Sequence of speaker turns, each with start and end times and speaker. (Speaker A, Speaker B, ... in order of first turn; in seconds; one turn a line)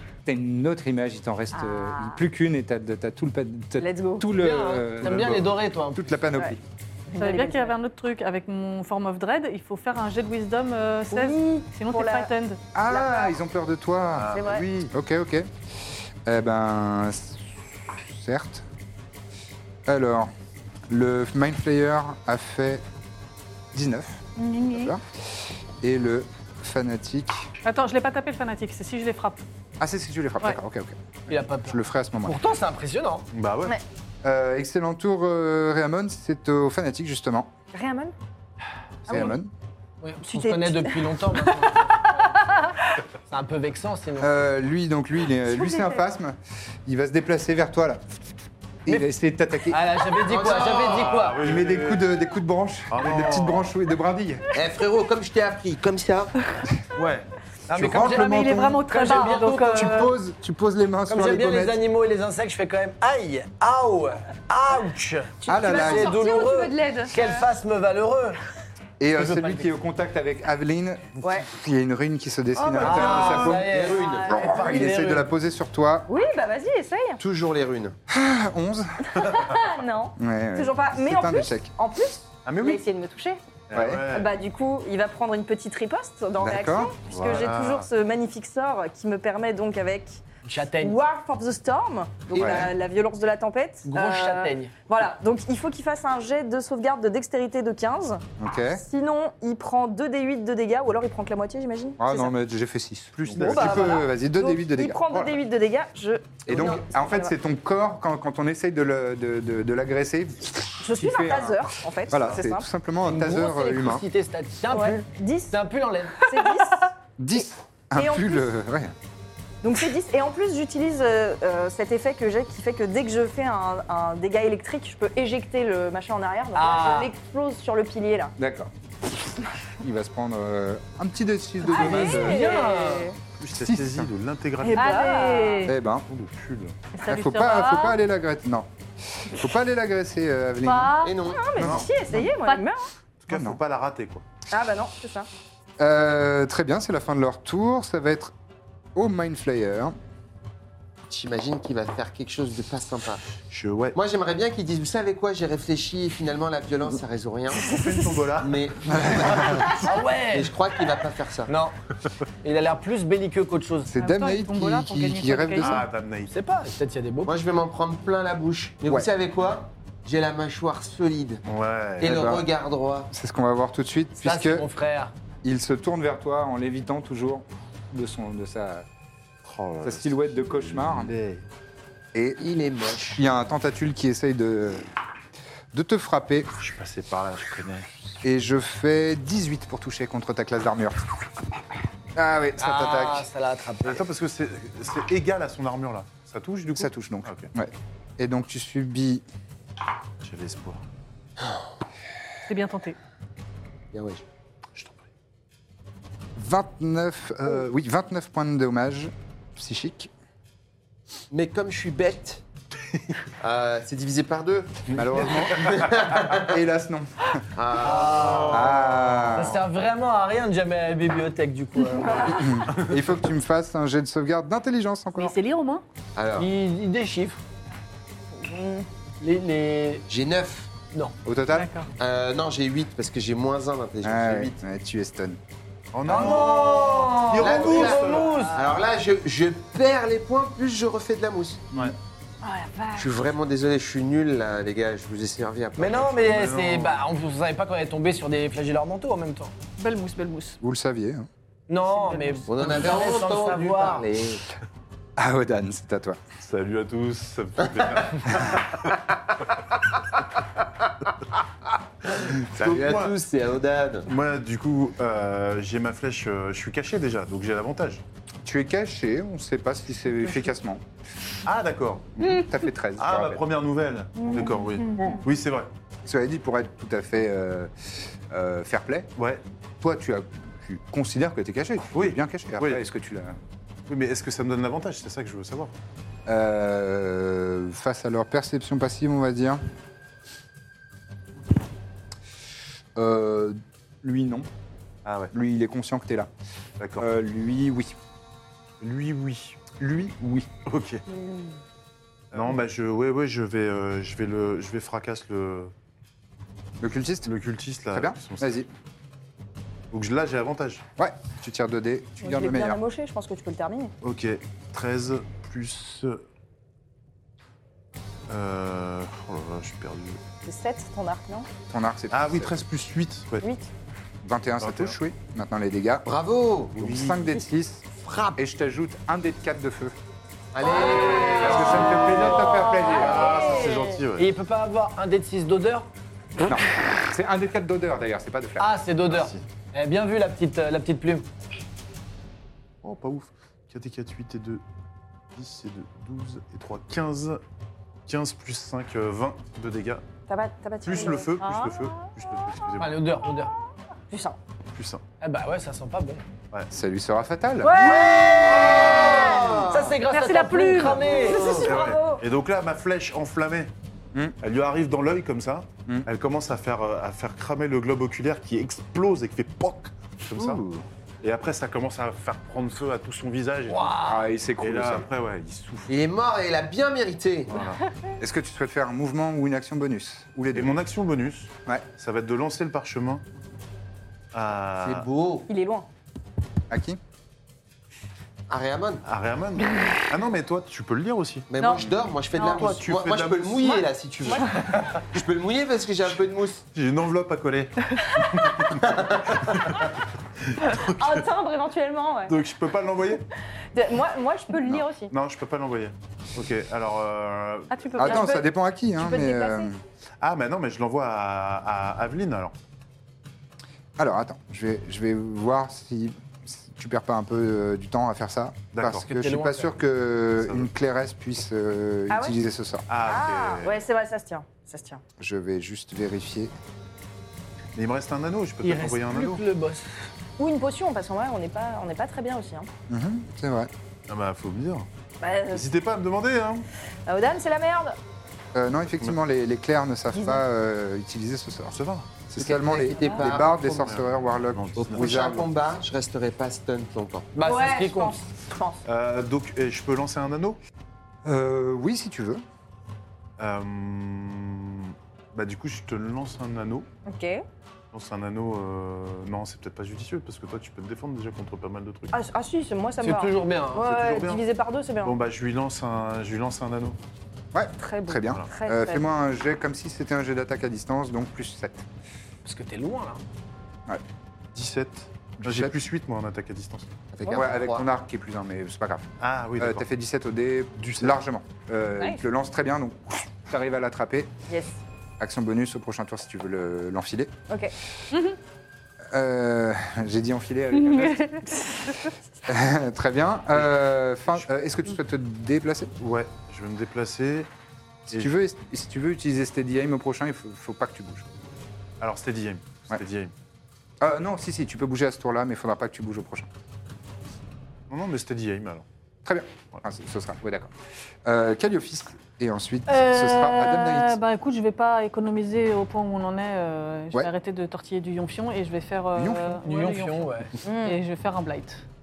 Speaker A: 0.3-6.6
Speaker B: 1.5-2.2
Speaker B: 3.8-4.3
Speaker C: 4.3-6.1
Speaker B: 7.1-7.8
Speaker D: 7.2-12.6
Speaker B: 11.1-12.3
Speaker A: 12.8-15.5
Speaker B: 12.8-13.4
Speaker E: 14.2-14.9
Speaker B: 14.3-14.7
Speaker A: 16.3-18.7
Speaker A: 19.9-20.3
Speaker A: 20.9-22.8
Speaker A: 23.7-25.0
Speaker D: 24.4-24.9
Speaker A: 25.8-27.5
Speaker D: 27.6-29.4
Speaker A: 29.8-32.4
Speaker C: 31.3-33.3
Speaker E: 33.3-33.8
Speaker A: 34.2-37.5
Speaker B: 37.7-38.1
Speaker A: 39.1-39.5
Speaker C: 40.0-42.1
Speaker B: 40.2-41.8
Speaker C: 43.3-44.5
Speaker A: 44.2-48.0
Speaker B: 45.5-46.1
Speaker A: 48.9-50.0
Speaker C: 49.7-51.4
Speaker F: 50.3-51.2
Speaker E: 50.5-52.1
Speaker A: 51.4-54.5
Speaker E: 52.9-53.7
Speaker F: 54.5-56.3
Speaker E: 56.9-57.3
Speaker C: 57.7-59.9
Speaker A: 57.8-61.8
Speaker D: 57.9-60.1
Speaker C: 61.1-68.4
Speaker B: 65.4-67.5
Speaker A: 65.5-66.2
Speaker A: 69.0-73.7
Speaker C: 69.2-69.7
Speaker B: 71.2-71.5
Speaker E: 72.5-73.7
Speaker C: 72.8-75.3
Speaker F: 73.7-74.4
Speaker B: 74.0-74.9
Speaker A: 74.3-76.1
Speaker B: 76.1-77.2
Speaker F: 77.2-78.0
Speaker A: 78.1-79.3
Speaker B: 79.1-83.4
Speaker A: 80.2-81.7
Speaker E: 82.5-82.8
Speaker E: 83.7-84.3
Speaker A: 83.7-84.1
Speaker B: 84.1-90.2
Speaker A: 86.4-86.9
Speaker E: 87.1-87.9
Speaker C: 90.4-91.0
Speaker B: 90.8-102.3
Speaker A: 92.3-92.7
Speaker C: 93.9-94.7
Speaker A: 98.4-98.8
Speaker A: 102.0-105.3
Speaker E: 103.2-104.0
Speaker B: 103.4-107.3
Speaker A: 106.5-114.0
Speaker B: 110.8-112.7
Speaker E: 112.1-112.4
Speaker C: 113.0-116.3
Speaker B: 114.7-115.6
Speaker B: 116.2-118.5
Speaker A: 117.2-119.0
Speaker B: 119.6-128.3
Speaker C: 126.5-127.1
Speaker A: 128.4-128.7
Speaker A: 129.8-132.4
Speaker B: 131.7-133.2
Speaker C: 131.7-133.2
Speaker E: 133.4-135.1
Speaker A: 133.5-134.1
Speaker B: 134.6-135.7
Speaker D: 134.7-135.7
Speaker A: 135.7-136.1
Speaker E: 136.1-136.8
Speaker D: 137.0-138.0
Speaker A: 137.0-141.0
Speaker D: 140.6-141.2
Speaker F: 141.0-141.6
Speaker B: 141.3-142.9
Speaker E: 141.6-141.9
Speaker A: 141.6-142.3
Speaker D: 142.2-142.7
Speaker E: 143.2-144.2
Speaker A: 143.3-143.6
Speaker B: 144.5-145.3
Speaker A: 145.8-148.3
Speaker A: 148.9-149.9
Speaker F: 151.1-153.2
Speaker E: 153.4-154.0
Speaker F: 153.9-157.8
Speaker E: 157.6-159.6
Speaker F: 158.4-161.5
Speaker A: 158.9-159.6
Speaker C: 159.7-160.6
Speaker C: 161.5-161.8
Speaker C: 162.4-163.9
Speaker A: 163.9-165.9
Speaker D: 164.0-165.8
Speaker E: 165.6-166.3
Speaker C: 166.3-167.3
Speaker F: 167.3-171.4
Speaker E: 171.4-172.3
Speaker F: 172.0-173.1
Speaker A: 172.0-172.4
Speaker A: 173.1-174.7
Speaker C: 174.2-175.1
Speaker A: 175.4-178.9
Speaker E: 179.4-181.4
Speaker A: 179.8-181.1
Speaker A: 182.1-182.4
Speaker F: 182.4-183.2
Speaker A: 183.2-184.9
Speaker A: 185.7-186.5
Speaker E: 186.6-187.9
Speaker A: 188.2-191.1
Speaker A: 192.2-193.3
Speaker C: 192.6-194.0
Speaker E: 193.8-197.5
Speaker A: 196.8-199.2
Speaker E: 200.2-200.8
Speaker D: 202.5-203.0
Speaker F: 203.9-204.2
Speaker E: 204.8-205.0
Speaker A: 206.4-210.1
Speaker F: 211.3-212.4
Speaker F: 213.4-214.9
Speaker E: 214.9-215.9
Speaker A: 214.9-217.4
Speaker F: 215.5-216.4
Speaker F: 217.6-218.6
Speaker C: 217.8-218.7
Speaker E: 218.1-219.4
Speaker A: 218.5-219.6
Speaker C: 219.3-222.5
Speaker B: 221.9-222.7
Speaker A: 222.4-225.4
Speaker D: 225.2-225.8
Speaker F: 226.2-226.5
Speaker C: 226.4-227.4
Speaker B: 228.3-228.9
Speaker C: 229.2-230.1
Speaker F: 230.1-230.7
Speaker A: 231.2-231.7
Speaker D: 231.5-231.9
Speaker F: 232.0-234.6
Speaker A: 234.0-235.4
Speaker E: 235.9-238.3
Speaker C: 236.1-238.6
Speaker F: 236.1-236.4
Speaker F: 237.3-241.7
Speaker B: 242.4-243.1
Speaker F: 243.0-246.3
Speaker C: 245.8-249.5
Speaker E: 246.2-247.0
Speaker D: 249.8-250.6
Speaker A: 250.6-251.3
Speaker C: 251.7-254.1
Speaker D: 251.9-252.5
Speaker F: 252.5-254.4
Speaker A: 255.2-256.2
Speaker E: 256.4-259.0
Speaker E: 262.4-263.1
Speaker F: 262.5-264.1
Speaker E: 264.1-268.0
Speaker A: 268.4-270.8
Speaker E: 271.4-272.5
Speaker A: 272.3-273.4
Speaker E: 273.0-275.7
Speaker B: 274.2-275.2
Speaker A: 276.1-277.7
Speaker A: 278.3-279.1
Speaker E: 279.2-279.4
Speaker A: 279.8-283.4
Speaker E: 281.9-282.8
Speaker E: 283.9-285.7
Speaker A: 286.3-289.6
Speaker A: 293.0-294.5
Speaker E: 295.1-295.3
Speaker A: 295.3-296.3
Speaker E: 296.8-297.1
Speaker A: 297.0-298.0
Speaker E: 298.8-299.8
Speaker A: 299.8-300.5
Speaker E: 300.6-301.0
Speaker B: 301.1-301.5
Speaker E: 302.3-305.7
Speaker A: 306.8-307.3
Speaker E: 307.2-308.6
Speaker A: 307.9-308.7
Speaker E: 309.9-310.9
Speaker A: 311.0-312.8
Speaker B: 312.2-313.9
Speaker E: 314.0-316.2
Speaker E: 318.3-320.2
Speaker B: 320.4-321.5
Speaker A: 321.7-322.6
Speaker E: 322.1-323.5
Speaker B: 323.4-323.7
Speaker A: 324.2-326.1
Speaker E: 324.6-324.9
Speaker F: 326.1-327.0
Speaker A: 326.8-327.9
Speaker E: 326.8-327.2
Speaker C: 328.1-328.3
Speaker A: 328.4-330.0
Speaker F: 330.5-332.3
Speaker B: 330.6-333.9
Speaker C: 330.6-332.7
Speaker A: 331.3-333.4
Speaker E: 332.9-334.3
Speaker C: 334.2-335.9
Speaker A: 336.4-338.7
Speaker C: 338.6-341.3
Speaker E: 339.1-339.4
Speaker E: 342.8-344.6
Speaker E: 345.3-347.4
Speaker E: 348.1-350.0
Speaker B: 350.3-351.4
Speaker E: 350.8-353.0
Speaker D: 351.4-352.1
Speaker C: 352.8-353.5
Speaker B: 354.1-354.4
Speaker E: 354.8-355.0
Speaker C: 355.2-356.2
Speaker A: 356.7-357.8
Speaker D: 357.6-359.4
Speaker B: 357.7-358.6
Speaker C: 357.8-361.7
Speaker F: 358.4-360.0
Speaker D: 360.1-361.4
Speaker B: 360.9-362.2
Speaker F: 361.3-361.6
Speaker E: 361.6-363.7
Speaker E: 364.4-370.6
Speaker A: 370.4-370.9
Speaker E: 371.2-374.0
Speaker C: 373.7-374.2
Speaker A: 374.1-375.1
Speaker E: 374.6-375.9
Speaker F: 375.9-377.6
Speaker E: 377.5-377.8
Speaker A: 378.2-380.7
Speaker E: 380.5-383.2
Speaker E: 384.3-385.1
Speaker F: 384.8-385.5
Speaker B: 385.5-385.9
Speaker A: 386.7-387.0
Speaker F: 388.5-389.0
Speaker E: 389.0-391.5
Speaker F: 391.5-396.6
Speaker D: 391.6-392.7
Speaker E: 392.4-393.9
Speaker B: 394.2-394.7
Speaker E: 396.7-401.2
Speaker F: 398.8-399.6
Speaker B: 400.9-402.4
Speaker E: 402.3-403.2
Speaker B: 403.7-405.1
Speaker E: 405.1-408.1
Speaker D: 407.7-408.4
Speaker B: 408.0-409.7
Speaker A: 408.0-409.8
Speaker E: 410.2-412.6
Speaker A: 414.0-422.9
Speaker E: 418.7-419.1
Speaker C: 419.0-419.7
Speaker E: 420.4-420.7
Speaker B: 422.1-422.4
Speaker E: 422.9-423.8
Speaker B: 423.0-425.0
Speaker A: 425.2-426.5
Speaker E: 427.8-429.4
Speaker C: 428.6-429.9
Speaker B: 430.4-432.7
Speaker A: 432.9-433.7
Speaker E: 434.1-434.9
Speaker B: 435.2-435.7
Speaker E: 435.5-436.7
Speaker B: 437.1-438.0
Speaker A: 438.5-441.8
Speaker B: 440.1-440.4
Speaker E: 441.7-442.2
Speaker A: 442.3-445.5
Speaker F: 442.4-443.9
Speaker B: 443.0-443.3
Speaker E: 443.5-445.4
Speaker F: 444.8-447.3
Speaker C: 447.3-448.2
Speaker B: 447.4-448.8
Speaker E: 448.9-450.6
Speaker A: 451.2-452.4
Speaker E: 453.4-456.9
Speaker B: 457.1-457.4
Speaker E: 457.9-462.1
Speaker B: 462.1-465.2
Speaker C: 463.0-464.0
Speaker E: 463.8-464.4
Speaker E: 465.0-467.0
Speaker A: 467.5-471.9
Speaker B: 467.8-469.1
Speaker C: 472.4-473.2
Speaker E: 474.5-476.9
Speaker A: 475.4-475.7
Speaker F: 477.1-477.9
Speaker A: 477.3-484.3
Speaker E: 479.2-479.9
Speaker E: 480.8-481.2
Speaker B: 484.5-484.8
Speaker A: 485.2-487.3
Speaker D: 488.1-488.4
Speaker A: 489.1-491.5
Speaker D: 490.8-491.4
Speaker A: 492.5-495.9
Speaker E: 496.0-497.5
Speaker A: 498.1-501.3
Speaker E: 498.1-498.4
Speaker E: 502.0-503.3
Speaker A: 504.0-506.5
Speaker E: 507.9-508.9
Speaker A: 509.2-510.7
Speaker A: 511.2-514.2
Speaker D: 512.9-521.8
Speaker A: 519.1-519.6
Speaker C: 519.6-520.5
Speaker B: 520.6-521.0